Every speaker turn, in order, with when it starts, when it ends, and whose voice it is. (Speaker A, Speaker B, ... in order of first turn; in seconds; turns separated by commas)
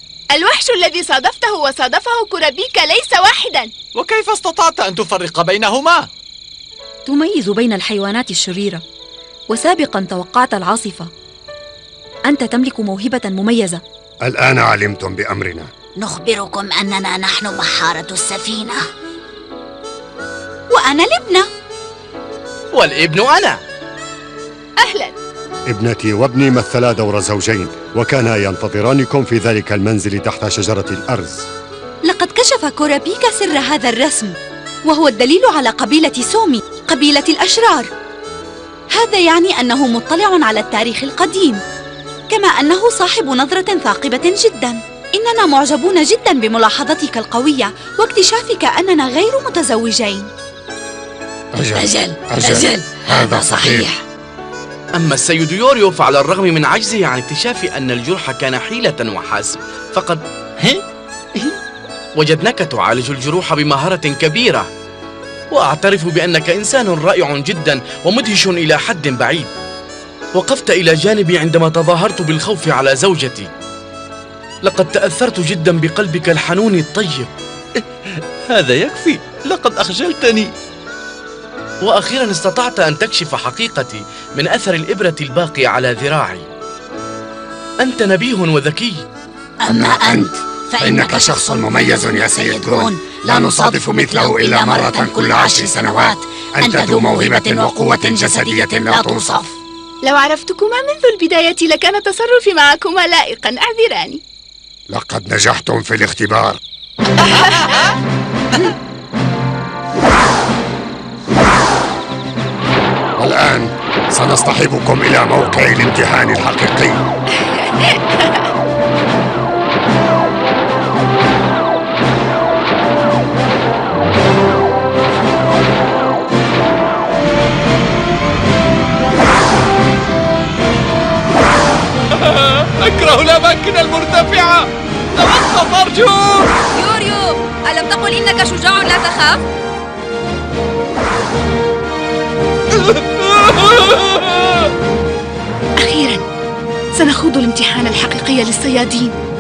Speaker A: 0.3-3.7, Speaker B: 4.0-6.1, Speaker C: 7.1-8.8, Speaker C: 9.5-11.1, Speaker C: 12.3-13.8, Speaker D: 14.2-15.7, Speaker E: 16.0-18.8, Speaker F: 20.7-21.5, Speaker G: 22.7-23.6, Speaker A: 24.8-25.1, Speaker D: 25.7-31.5, Speaker F: 32.0-37.9, Speaker F: 38.9-41.6, Speaker F: 42.3-50.3, Speaker D: 51.5-53.9, Speaker E: 51.8-52.6, Speaker F: 53.6-54.0, Speaker G: 54.9-60.2, Speaker G: 62.1-64.7, Speaker G: 65.5-69.5, Speaker G: 70.3-73.5, Speaker G: 74.6-77.3, Speaker B: 78.5-80.5, Speaker G: 81.8-86.5, Speaker G: 87.8-89.0, Speaker E: 89.6-99.6, Speaker D: 89.7-99.4, Speaker A: 100.0-104.2, Speaker D: 104.9-106.6, Speaker B: 107.3-107.9, Speaker A: 107.3-107.6, Speaker D: 113.2-117.0, Speaker A: 117.5-118.4, Speaker B: 132.1-136.5, Speaker C: 136.7-139.4, Speaker B: 142.7-144.7, Speaker A: 145.8-146.2, Speaker A: 146.9-149.2